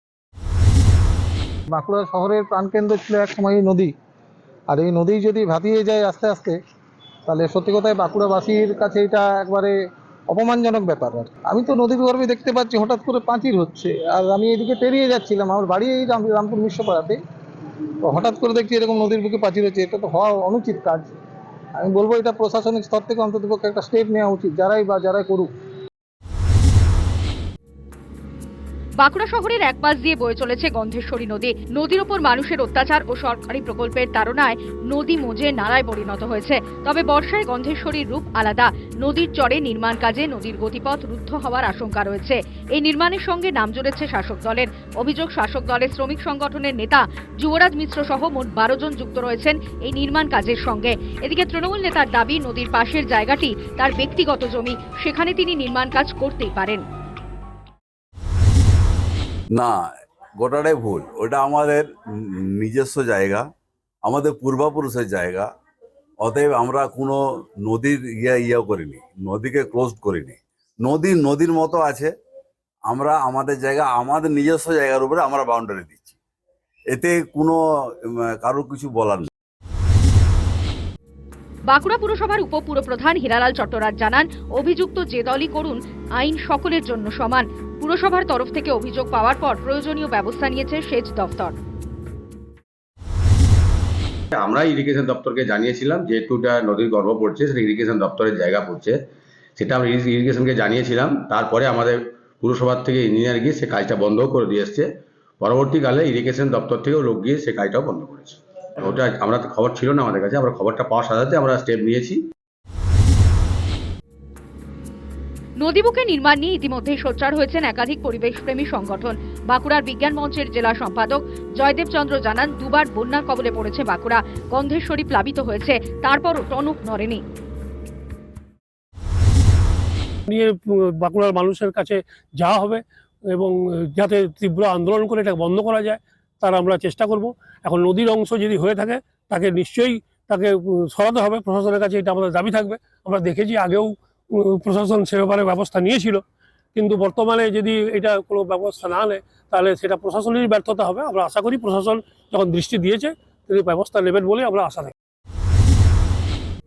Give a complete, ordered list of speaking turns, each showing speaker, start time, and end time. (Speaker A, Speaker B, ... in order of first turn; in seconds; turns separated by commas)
Speaker A: 1.7-3.9, Speaker A: 4.7-6.6, Speaker A: 7.3-9.8, Speaker A: 10.3-17.2, Speaker A: 18.0-21.1, Speaker A: 21.8-25.5, Speaker B: 29.0-56.8, Speaker C: 59.5-59.8, Speaker C: 60.4-63.5, Speaker C: 64.0-65.5, Speaker C: 66.2-72.1, Speaker C: 72.9-76.2, Speaker C: 76.9-77.6, Speaker C: 78.3-79.3, Speaker B: 81.7-91.5, Speaker D: 94.3-99.0, Speaker D: 99.5-104.9, Speaker D: 105.4-112.2, Speaker B: 115.6-127.2, Speaker E: 130.3-146.2, Speaker E: 146.7-154.9